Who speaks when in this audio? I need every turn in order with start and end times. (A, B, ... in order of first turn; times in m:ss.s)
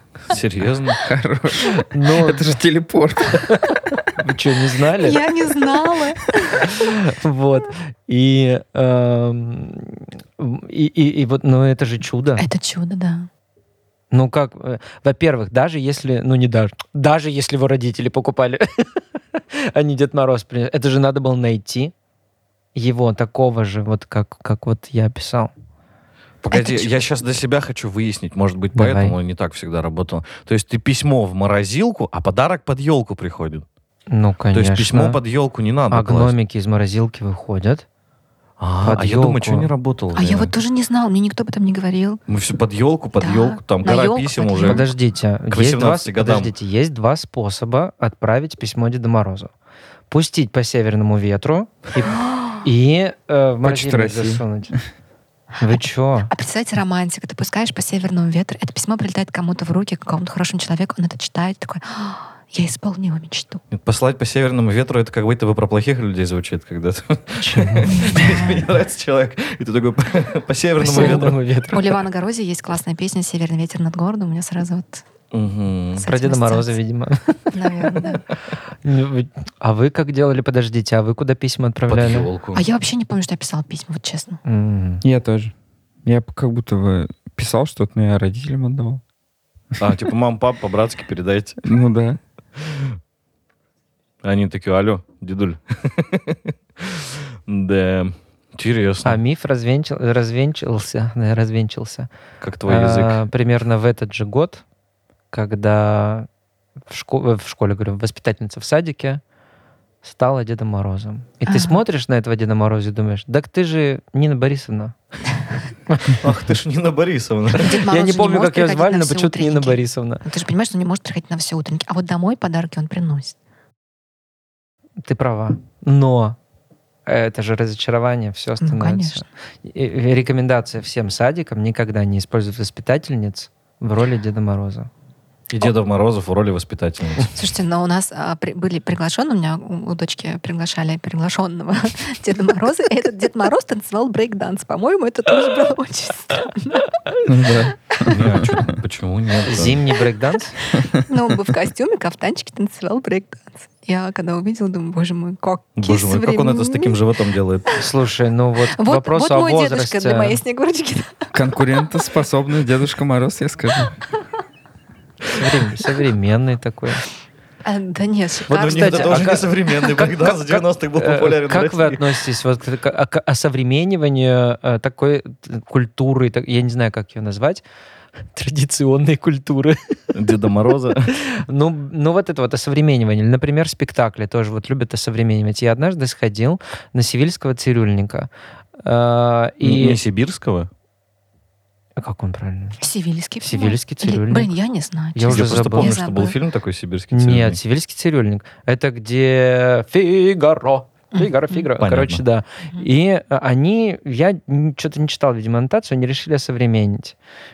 0:00.3-0:01.0 A
0:01.0-0:03.8 B
0:01.8-0:02.6 C
0:03.4-0:05.2 C
0:05.0-0:06.8 D
0:06.6-0:12.4 C
0:12.4-0:13.3 D
0:14.1-0:19.0 C
0:19.5-0:21.9 C
0:22.8-0:25.5 C
0:26.4-0:33.6 A
0:26.5-0:27.0 D
0:28.7-0:29.2 C
0:34.1-0:35.2 C
0:34.5-0:36.3 A
0:35.9-0:37.8 C
0:38.6-0:40.5 A
0:38.8-0:39.7 C
0:40.2-0:42.2 D
0:42.3-0:44.9 A
0:43.2-0:44.9 D
0:44.6-0:49.5 C
0:45.5-0:46.5 A
0:50.1-0:54.8 C
0:52.2-0:52.6 D
0:53.6-0:54.8 B
0:55.6-0:56.3 C
0:55.7-1:03.6 D
1:03.7-1:11.4 A
1:07.4-1:08.2 C
1:07.9-1:08.6 D
1:10.8-1:12.0 C
1:10.9-1:15.0 D
1:15.3-1:16.1 A
1:16.0-1:16.8 D
1:16.1-1:18.2 C
1:17.5-1:18.2 D
1:18.8-1:22.3 C
1:21.9-1:22.6 A
1:22.5-1:24.4 D
1:24.4-1:25.0 C
1:25.0-1:29.0 B
1:29.8-1:31.6 A
1:31.6-1:32.2 B
1:32.6-1:32.9 A
1:34.2-1:39.2 A
1:39.0-1:42.1 C
1:42.4-1:43.2 A
1:42.7-1:44.6 C
1:45.3-1:46.3 C
1:46.9-1:49.2 C
1:50.0-1:55.0 C
1:51.5-1:51.8 D
1:55.9-1:56.2 C
1:56.1-1:57.8 A
1:57.6-2:03.4 D
1:57.9-2:00.2 C
2:05.0-2:06.4 C
2:07.1-2:14.9 C
2:08.6-2:09.2 D
2:15.5-2:17.3 A
2:17.3-2:26.9 D
2:27.2-2:28.8 B
2:28.0-2:28.7 D
2:28.1-2:29.8 A
2:29.4-2:30.6 C
2:30.6-2:37.1 D
2:35.8-2:37.8 A
2:37.8-2:40.4 C
2:38.7-2:41.3 D
2:41.3-2:44.0 B
2:45.3-2:47.0 C
2:47.6-2:49.4 D
2:48.5-2:57.6 C
2:48.6-2:52.0 A
2:58.3-2:59.8 C
3:00.1-3:01.1 A
3:01.3-3:08.3 C
3:08.8-3:10.0 C
3:09.6-3:10.7 A
3:12.0-3:12.8 C
3:12.8-3:16.4 D
3:13.4-3:14.5 C
3:15.1-3:16.0 C
3:15.3-3:17.6 A
3:17.1-3:27.2 C
3:21.2-3:21.7 D
3:21.8-3:22.2 A